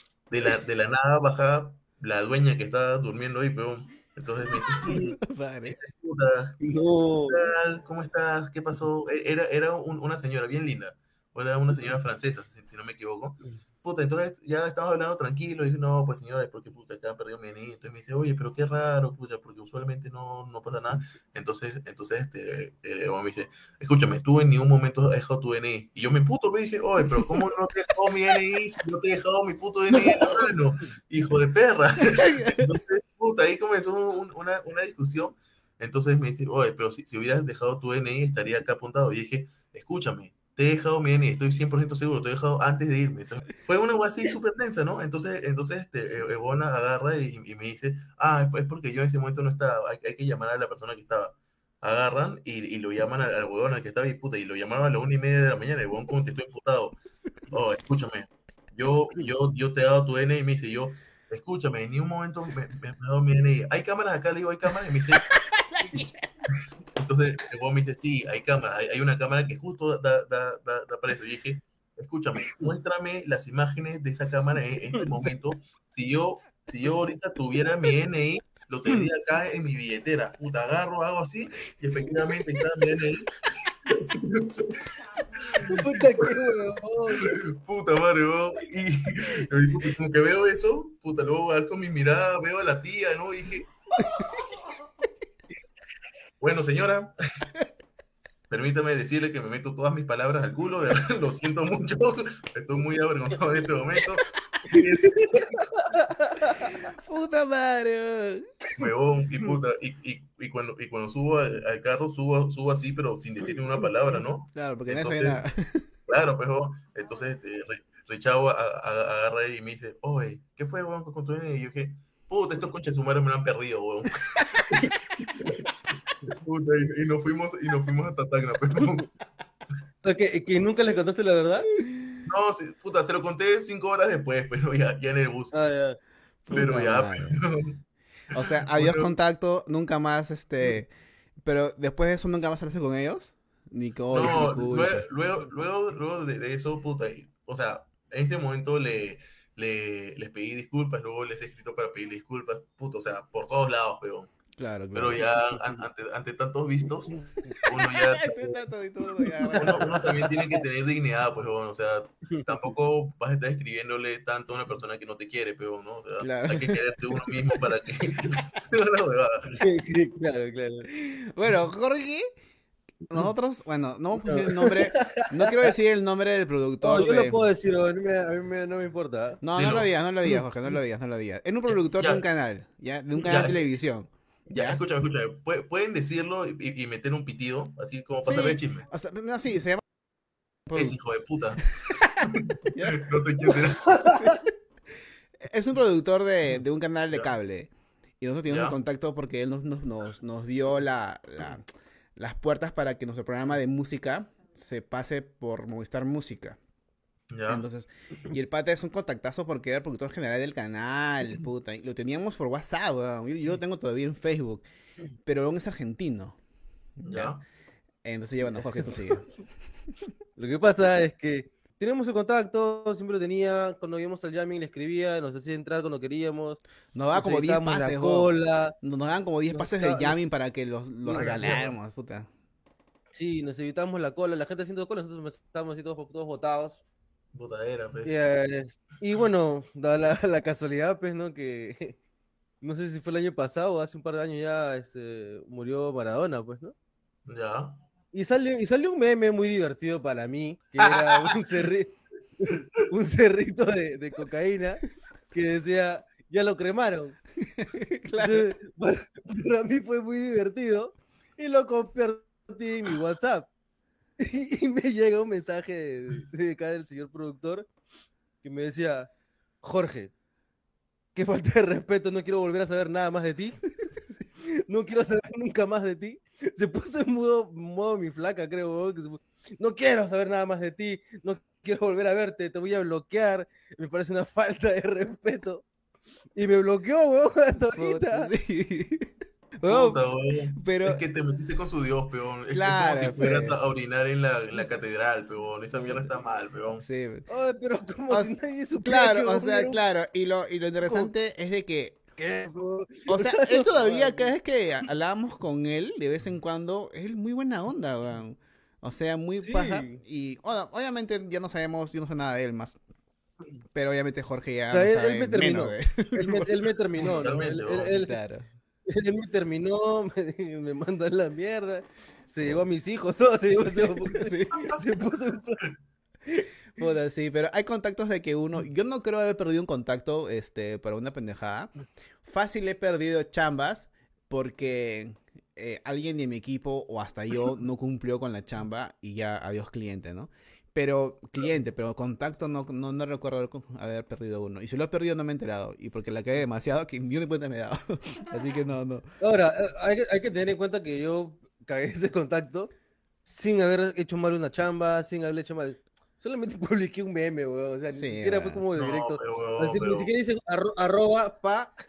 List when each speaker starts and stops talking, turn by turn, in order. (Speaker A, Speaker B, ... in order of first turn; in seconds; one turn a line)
Speaker A: 0.3-5.1
Speaker B: 4.8-5.8
Speaker C: 4.8-5.2
Speaker A: 5.6-6.6
Speaker C: 6.6-7.5
Speaker A: 7.3-57.0
Speaker C: 29.9-30.5
Speaker B: 32.1-32.7
Speaker A: 57.5-65.4
Speaker B: 65.3-66.2
Speaker A: 66.9-86.3
Speaker C: 85.6-87.3
Speaker A: 87.2-93.7
Speaker B: 94.0-94.4
Speaker A: 96.4-97.1
Speaker A: 98.5-105.5
Speaker C: 104.7-106.9
Speaker B: 106.6-108.4
Speaker A: 108.7-115.4
Speaker B: 114.5-115.9
Speaker A: 116.1-125.7
Speaker A: 126.3-129.1
Speaker C: 130.0-131.7
Speaker B: 131.8-132.1
Speaker A: 132.2-135.5
Speaker C: 135.5-136.0
Speaker B: 136.5-137.4
Speaker A: 136.5-137.8
Speaker B: 138.3-140.9
Speaker A: 138.3-139.1
Speaker B: 141.4-145.1
Speaker A: 144.1-154.3
Speaker B: 154.6-155.2
Speaker A: 154.9-157.1
Speaker B: 157.4-160.4
Speaker A: 157.6-158.4
Speaker C: 159.2-159.6
Speaker A: 159.6-169.6
Speaker C: 162.3-162.6
Speaker B: 166.2-167.3
Speaker C: 169.5-170.9
Speaker B: 170.9-172.3
Speaker B: 173.1-177.4
Speaker C: 174.2-175.7
Speaker C: 176.8-179.4
Speaker B: 179.4-184.8
Speaker A: 179.5-179.9
Speaker A: 181.9-182.2
Speaker A: 183.2-183.6
Speaker A: 184.5-188.8
Speaker B: 188.2-189.8
Speaker B: 190.7-190.9
Speaker A: 190.7-194.2
Speaker B: 191.8-194.5
Speaker B: 195.4-201.6
Speaker A: 198.5-198.8
Speaker B: 202.2-206.6
Speaker A: 207.3-207.6
Speaker B: 207.5-214.7
Speaker B: 215.2-216.4
Speaker B: 217.0-217.3
Speaker A: 217.1-217.4
Speaker B: 218.0-219.3
Speaker C: 220.4-226.6
Speaker B: 226.9-232.3
Speaker C: 227.1-228.8
Speaker C: 229.5-230.2
Speaker C: 231.0-231.6
Speaker A: 231.1-231.8
Speaker C: 233.1-236.8
Speaker A: 237.3-238.2
Speaker C: 238.0-242.0
Speaker C: 242.6-246.7
Speaker A: 247.2-247.8
Speaker C: 248.1-257.2
Speaker B: 250.8-251.4
Speaker B: 257.4-258.5
Speaker C: 258.2-263.5
Speaker C: 264.2-267.7
Speaker C: 268.4-269.1
Speaker C: 269.6-270.1
Speaker C: 271.1-273.6
Speaker C: 274.4-285.6
Speaker C: 286.3-288.3
Speaker B: 287.8-290.0
Speaker A: 289.6-296.8
Speaker B: 290.6-291.0
Speaker B: 292.5-293.6
Speaker B: 296.8-297.3
Speaker C: 297.3-299.8
Speaker B: 298.1-302.0
Speaker C: 300.8-301.1
Speaker C: 302.2-304.3
Speaker B: 303.1-312.8
Speaker C: 309.4-310.0
Speaker B: 313.7-316.5
Speaker C: 314.7-318.2
Speaker A: 317.0-317.9
Speaker B: 317.9-318.5
Speaker C: 318.9-325.6
Speaker B: 323.6-324.6
Speaker A: 324.5-324.8
Speaker B: 326.8-349.1
Speaker C: 349.2-352.7
Speaker C: 353.2-361.7
Speaker B: 357.9-358.6
Speaker A: 358.7-360.1